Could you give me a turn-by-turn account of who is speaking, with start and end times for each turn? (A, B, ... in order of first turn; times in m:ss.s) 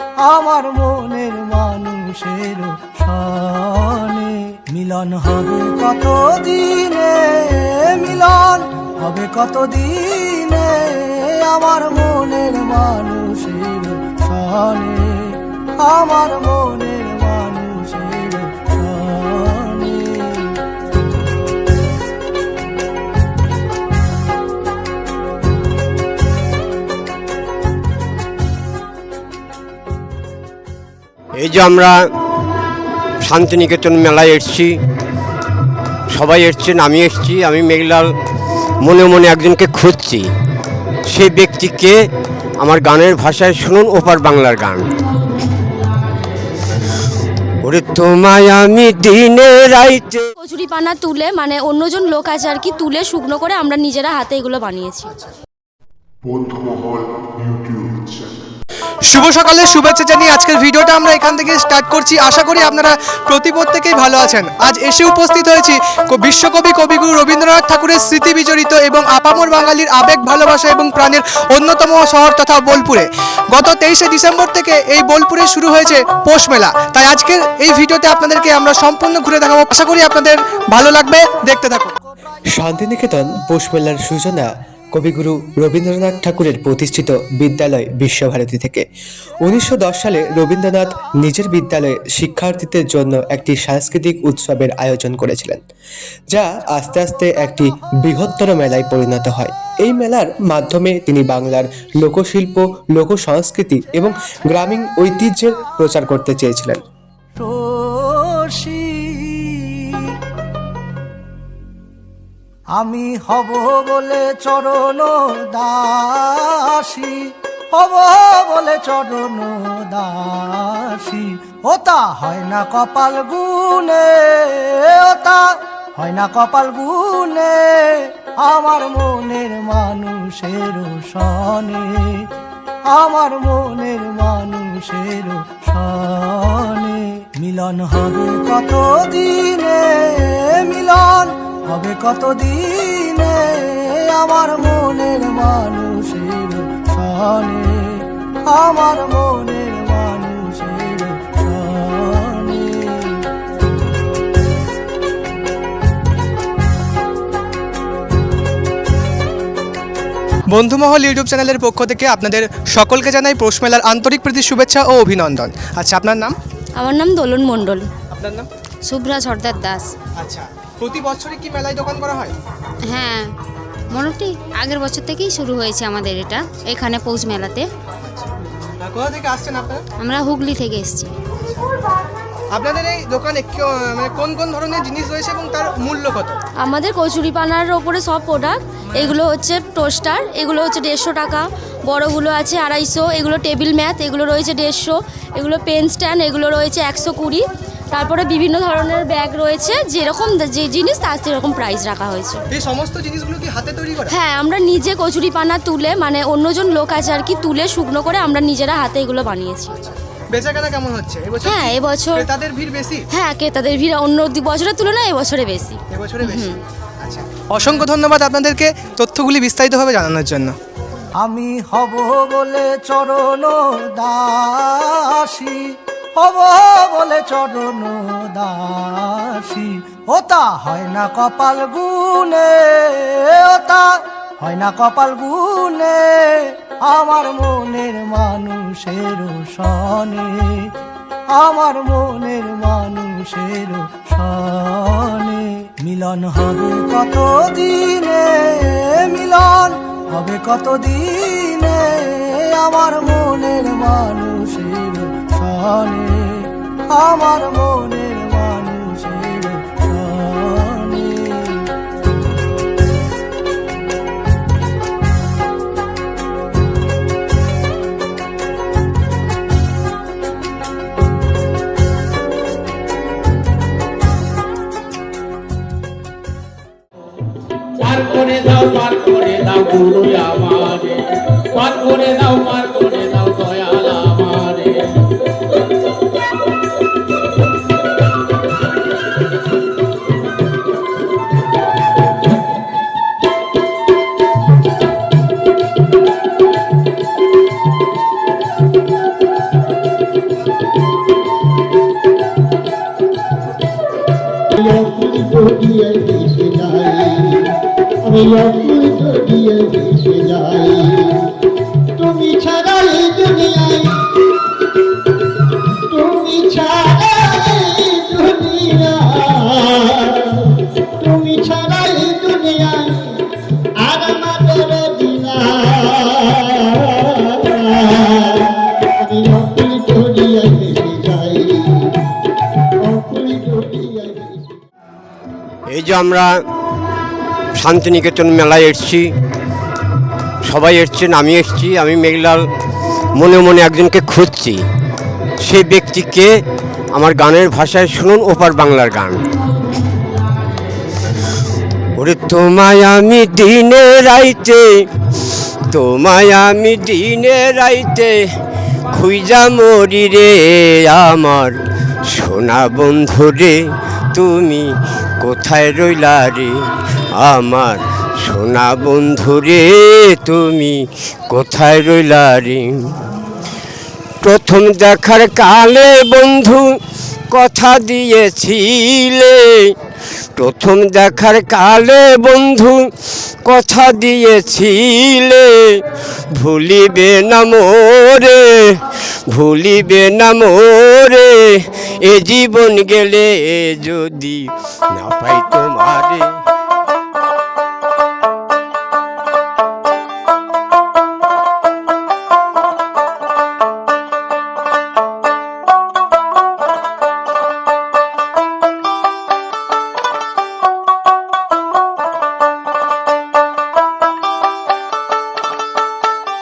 0:00.2-0:20.6 A
0:31.4-0:31.9 B
0:33.2-0:34.8 B
0:36.1-0:38.1 B
0:38.8-0:40.2 B
0:41.1-0:41.9 B
0:42.6-0:44.8 B
0:47.6-0:50.3 B
0:50.4-0:55.1 C
0:56.2-0:58.3 D
0:59.1-1:21.9 E
1:22.6-1:28.8 F
1:29.4-1:35.6 F
1:36.3-1:46.8 F
1:47.4-1:50.1 A
1:52.8-2:12.3 A
2:12.9-2:33.2 A
2:40.5-2:46.4 E
2:46.8-2:47.8 C
2:48.1-2:48.5 E
2:48.8-2:49.9 G
2:50.2-2:52.3 E
2:52.8-2:53.3 G
2:53.9-2:57.7 G
2:58.0-2:59.8 E
3:00.0-3:01.1 G
3:02.5-3:06.4 E
3:06.6-3:22.4 C
3:09.0-3:09.2 E
3:22.5-3:24.1 E
3:24.1-3:29.7 C
3:29.7-3:33.0 E
3:31.4-3:32.3 C
3:33.1-3:36.6 C
3:35.9-3:36.5 E
3:37.0-3:40.5 E
3:41.2-4:00.7 A
4:01.3-4:21.7 A
4:37.8-4:41.0 H
4:41.6-4:44.7 H
5:04.6-5:07.5 I
5:08.0-5:11.3 I
5:12.0-5:14.0 I
5:15.8-5:23.2 I
5:23.8-5:31.9 I
5:32.8-5:34.5 I
5:35.7-5:36.3 B
5:37.6-5:39.1 B
5:40.4-5:42.4 B
5:43.2-5:44.6 B
5:45.4-5:46.3 B
5:46.9-5:49.2 B
5:52.0-5:54.7 B
5:55.7-5:58.2 B
5:58.9-6:01.5 B
6:02.1-6:03.5 B
6:04.1-6:04.6 B
6:05.2-6:06.5 B
6:07.2-6:10.7 B
6:11.3-6:13.0 B
6:14.2-6:16.6 B
6:17.3-6:19.7 B
6:20.4-6:22.8 B
6:23.4-6:25.8 B
6:26.3-6:28.8 B
6:29.3-6:36.3 B